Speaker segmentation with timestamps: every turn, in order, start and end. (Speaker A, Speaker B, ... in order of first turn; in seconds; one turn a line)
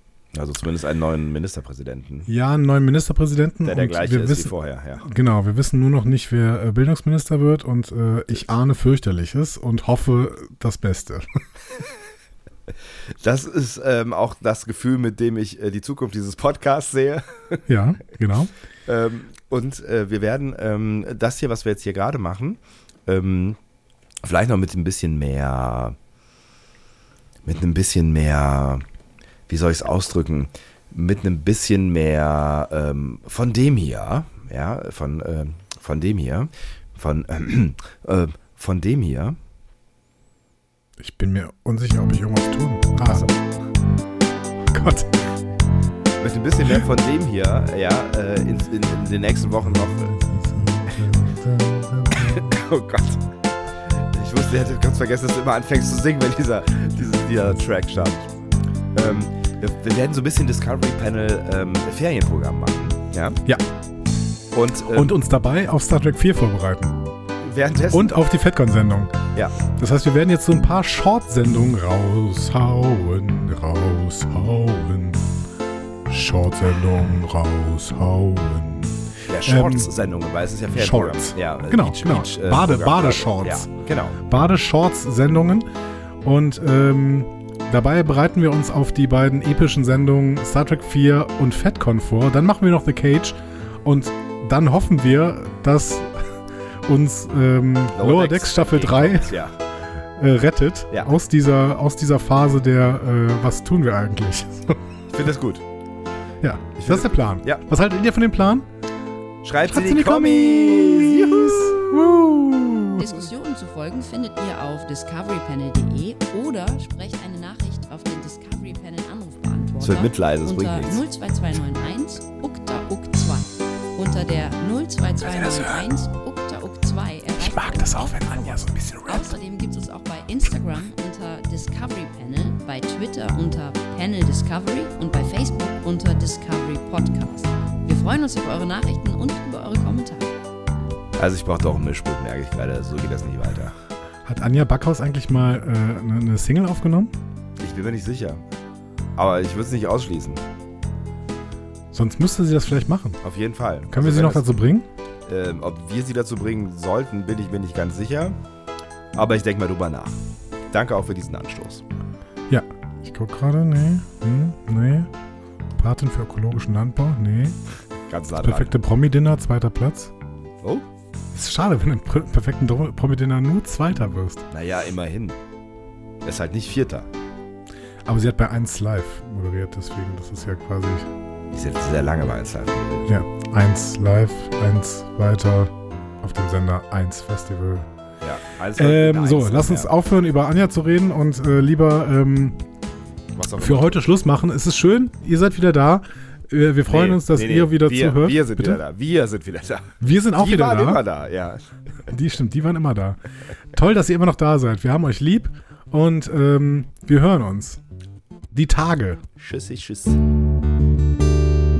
Speaker A: 0.3-2.3
Speaker B: 2.3-11.2
Speaker A: 3.6-5.0
Speaker A: 13.2-17.6
Speaker B: 17.7-18.5
Speaker A: 18.9-23.6
Speaker A: 24.2-25.9
Speaker A: 27.4-28.8
Speaker A: 29.5-39.4
Speaker B: 41.0-43.2
Speaker A: 43.0-43.5
Speaker B: 44.7-45.2
Speaker A: 46.2-50.1
Speaker B: 49.6-52.5
Speaker A: 52.2-53.2
Speaker A: 53.9-58.3
Speaker A: 58.9-63.4
Speaker A: 64.5-65.1
Speaker B: 64.9-67.0
Speaker A: 67.4-68.1
Speaker B: 67.9-69.1
Speaker B: 69.7-75.3
Speaker B: 76.1-79.9
Speaker A: 79.3-84.2
Speaker B: 80.7-83.7
Speaker B: 84.2-85.7
Speaker B: 86.2-99.4
Speaker A: 97.9-99.6
Speaker B: 100.2-104.8
Speaker A: 105.1-105.6
Speaker B: 106.4-108.7
Speaker A: 106.8-107.6
Speaker A: 109.4-111.8
Speaker B: 109.7-113.1
Speaker C: 112.9-140.3
Speaker A: 119.8-121.0
Speaker B: 125.2-125.9
Speaker B: 127.3-129.3
Speaker A: 141.2-143.7
Speaker B: 144.2-147.1
Speaker A: 147.6-148.4
Speaker A: 149.2-150.4
Speaker B: 151.9-153.2
Speaker A: 153.2-154.5
Speaker B: 153.9-154.8
Speaker A: 155.2-158.3
Speaker A: 159.1-161.8
Speaker B: 162.5-165.1
Speaker B: 165.8-167.6
Speaker A: 168.1-168.8
Speaker B: 168.4-170.1
Speaker B: 171.3-174.4
Speaker A: 174.5-175.4
Speaker A: 176.2-177.1
Speaker B: 178.1-181.1
Speaker A: 181.5-183.1
Speaker B: 183.1-187.8
Speaker A: 188.2-189.9
Speaker B: 188.8-192.6
Speaker A: 193.3-194.1
Speaker B: 193.6-198.8
Speaker A: 196.9-201.6
Speaker B: 200.0-201.0
Speaker B: 202.1-203.2
Speaker B: 203.7-207.8
Speaker B: 208.5-209.2
Speaker A: 209.4-210.2